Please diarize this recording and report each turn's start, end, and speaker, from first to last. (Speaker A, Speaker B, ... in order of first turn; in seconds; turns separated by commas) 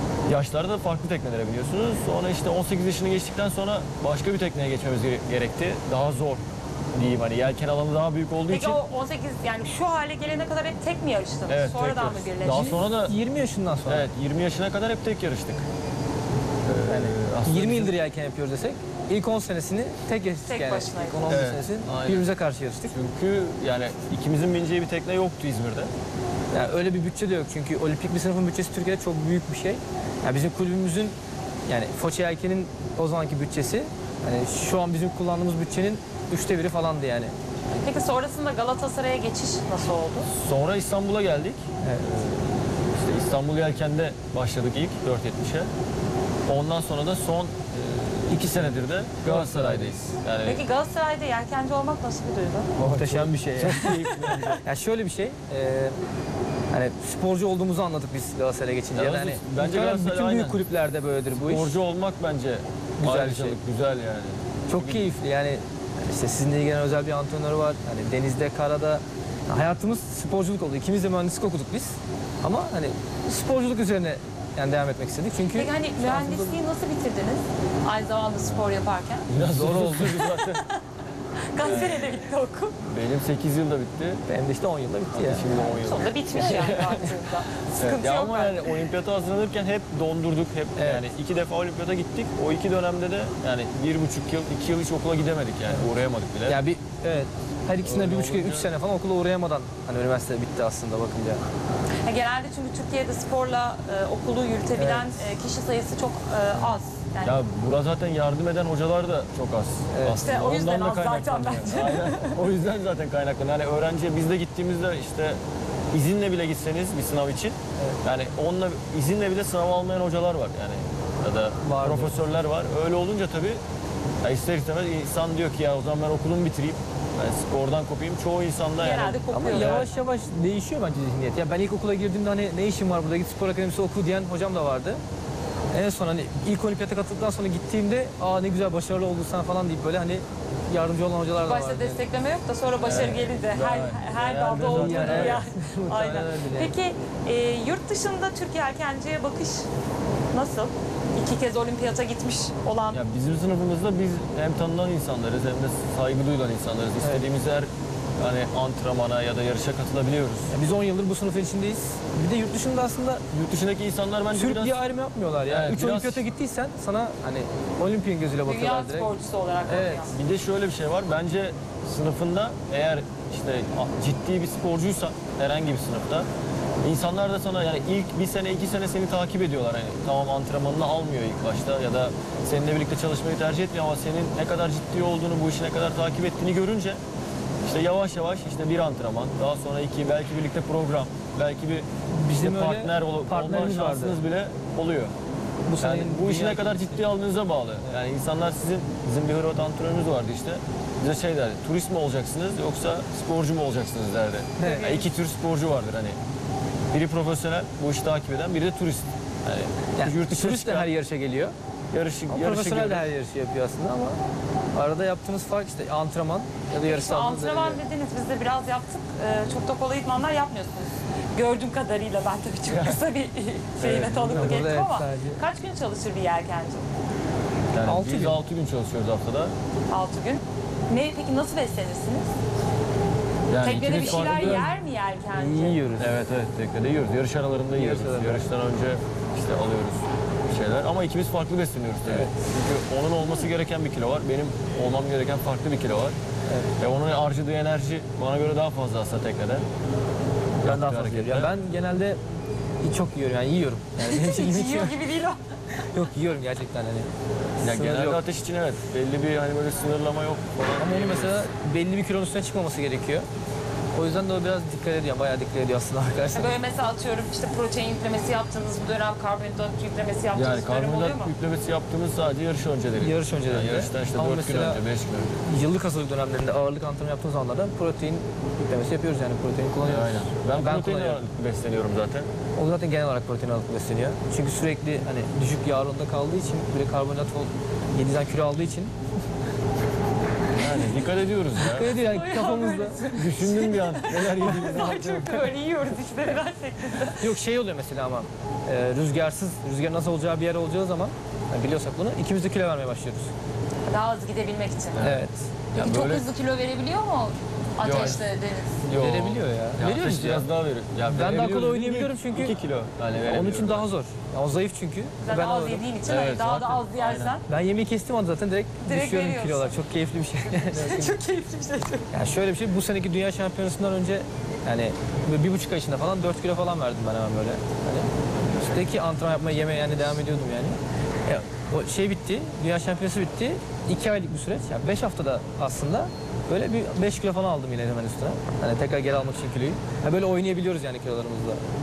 Speaker A: 0.3-8.8, Speaker B: 8.5-12.8, Speaker A: 11.5-13.1, Speaker C: 12.5-14.1, Speaker A: 13.8-15.6, Speaker A: 16.6-18.0, Speaker C: 16.9-22.9, Speaker B: 20.5-21.4, Speaker A: 21.3-22.3, Speaker A: 22.9-25.9, Speaker C: 26.5-37.3, Speaker B: 37.8-40.3, Speaker A: 40.3-45.7, Speaker C: 41.8-42.1, Speaker A: 46.5-50.6, Speaker C: 48.3-49.9, Speaker B: 50.4-52.7, Speaker A: 52.8-54.6, Speaker C: 52.8-56.0, Speaker C: 56.7-61.8, Speaker A: 58.9-60.6, Speaker A: 61.3-65.1, Speaker C: 63.0-63.6, Speaker C: 64.7-76.6, Speaker B: 75.5-79.3, Speaker A: 79.3-80.6, Speaker C: 79.3-80.2, Speaker B: 80.1-80.8, Speaker B: 81.5-82.8, Speaker A: 81.6-82.2, Speaker A: 82.8-84.2, Speaker C: 84.3-85.5, Speaker A: 85.1-87.0, Speaker B: 85.7-88.9, Speaker C: 86.3-87.0, Speaker A: 87.8-96.6, Speaker C: 90.8-91.0, Speaker C: 96.5-101.4, Speaker A: 97.8-98.7, Speaker B: 102.0-107.4, Speaker C: 104.8-105.2, Speaker A: 107.2-115.4, Speaker C: 109.9-110.2, Speaker B: 110.2-112.4, Speaker A: 115.9-123.6, Speaker C: 121.6-122.3, Speaker A: 124.2-129.9, Speaker B: 128.8-130.1, Speaker C: 129.3-135.0, Speaker C: 135.7-142.0, Speaker B: 141.4-149.7, Speaker A: 142.8-145.4, Speaker C: 144.6-146.7, Speaker B: 150.3-153.0, Speaker A: 152.9-160.5, Speaker C: 157.0-157.2, Speaker C: 160.5-163.2, Speaker A: 163.3-164.8, Speaker C: 164.3-169.1, Speaker A: 165.4-166.3, Speaker B: 168.4-170.2, Speaker C: 169.6-170.1, Speaker A: 170.1-176.3, Speaker A: 176.8-187.0, Speaker A: 187.6-195.1, Speaker C: 192.1-194.2, Speaker C: 195.7-197.1, Speaker A: 195.8-206.2, Speaker C: 204.6-205.0, Speaker B: 204.6-205.0, Speaker A: 206.9-210.9, Speaker C: 210.0-211.5, Speaker A: 211.9-213.1, Speaker C: 212.3-214.2, Speaker C: 214.7-217.8, Speaker B: 216.8-226.8, Speaker A: 222.7-223.0, Speaker A: 223.8-224.7, Speaker C: 224.3-225.4, Speaker A: 227.7-229.5, Speaker C: 227.8-228.4, Speaker B: 229.9-232.3, Speaker A: 233.5-234.7, Speaker B: 233.6-235.8, Speaker C: 233.9-234.7, Speaker C: 235.3-236.2, Speaker A: 236.0-246.2, Speaker C: 237.7-238.4, Speaker C: 242.0-242.4, Speaker A: 246.8-249.7, Speaker A: 250.6-251.5, Speaker C: 250.6-252.2, Speaker C: 252.8-255.0, Speaker B: 254.0-255.4, Speaker C: 255.7-258.2, Speaker A: 257.6-261.5, Speaker C: 260.8-263.3, Speaker C: 263.9-266.6, Speaker B: 266.3-271.3, Speaker A: 270.3-275.4, Speaker C: 273.0-274.8, Speaker C: 275.4-281.2, Speaker A: 279.9-282.3, Speaker C: 282.6-288.9, Speaker A: 290.6-292.0, Speaker C: 291.6-293.1, Speaker B: 291.9-297.3, Speaker A: 293.1-295.3, Speaker C: 294.8-295.1, Speaker C: 297.2-303.3, Speaker B: 303.9-305.0, Speaker A: 304.9-306.3, Speaker C: 305.0-305.5, Speaker B: 305.7-308.8, Speaker A: 307.8-308.2, Speaker A: 308.8-313.9, Speaker C: 308.9-310.5, Speaker C: 311.1-312.6, Speaker C: 313.2-315.8, Speaker B: 315.2-317.4, Speaker A: 316.0-317.4, Speaker C: 317.5-321.2, Speaker B: 318.8-319.8, Speaker B: 320.4-322.1, Speaker C: 322.1-341.6